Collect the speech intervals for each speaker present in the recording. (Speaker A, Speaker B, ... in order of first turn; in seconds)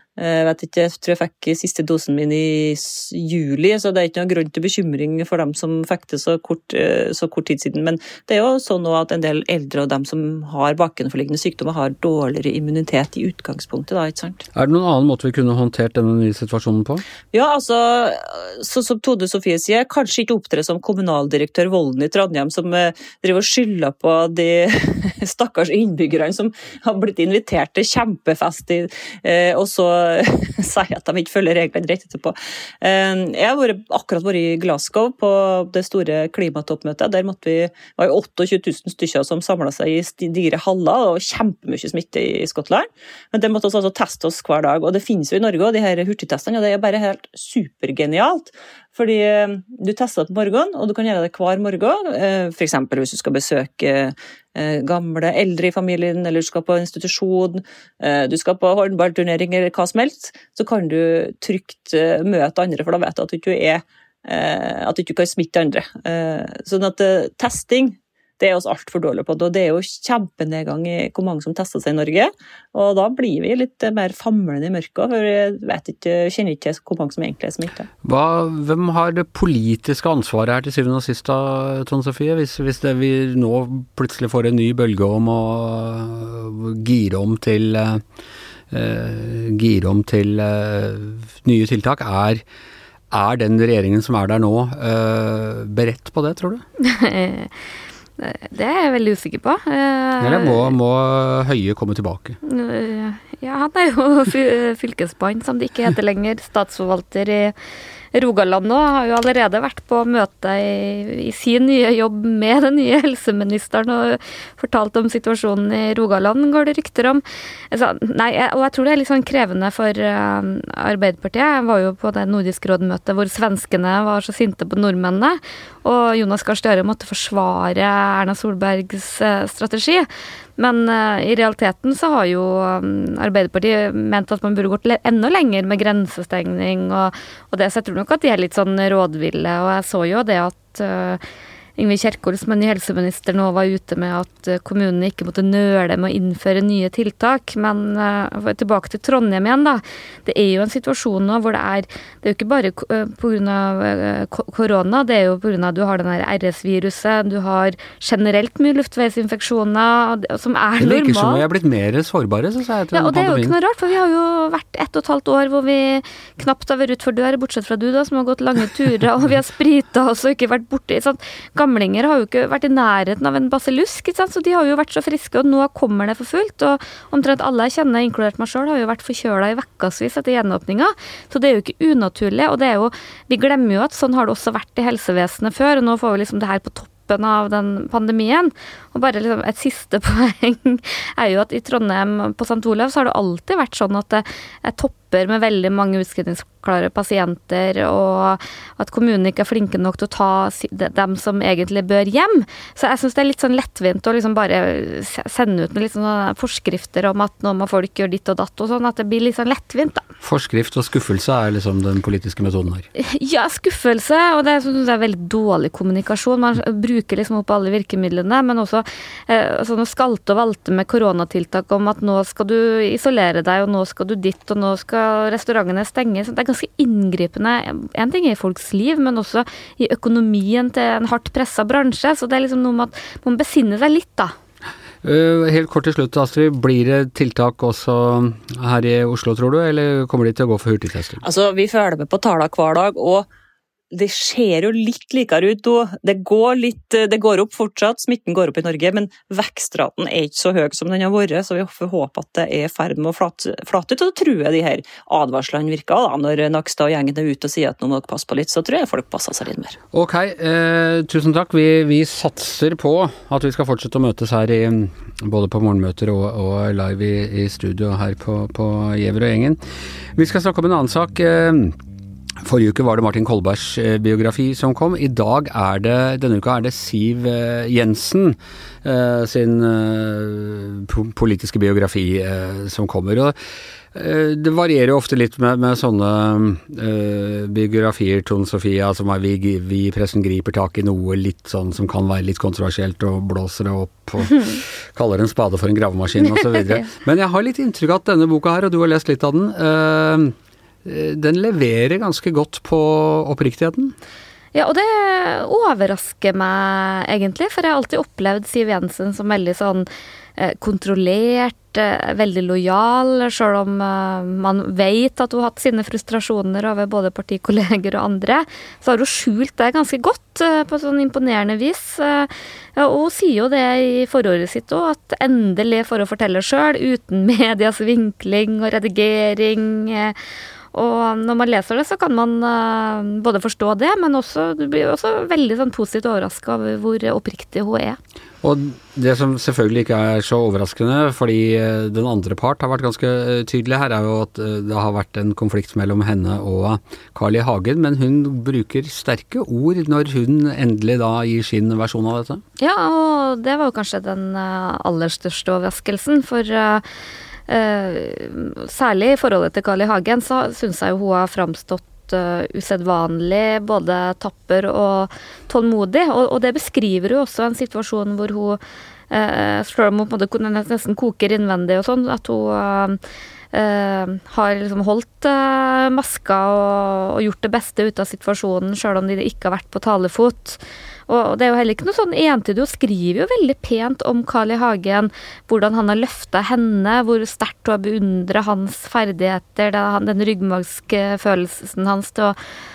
Speaker A: 0.2-14.4, 17.3-77.9, 241.2-243.3, 243.9-259.8
Speaker B: 14.6-17.0, 78.0-88.0, 88.7-92.4, 93.1-96.6, 100.2-102.4, 160.8-163.6, 210.2-212.9, 235.0-241.2, 259.9-269.6, 270.1-271.8, 272.4-283.4, 283.9-303.9, 338.4-352.4
Speaker C: 96.8-97.5, 98.2-100.7, 102.4-107.5, 108.1-130.1, 130.6-141.2, 141.8-161.4, 162.9-210.0, 213.0-234.3, 304.5-330.1, 330.7-338.0, 352.6-356.8, 357.5-368.6, 369.1-373.0, 373.5-392.4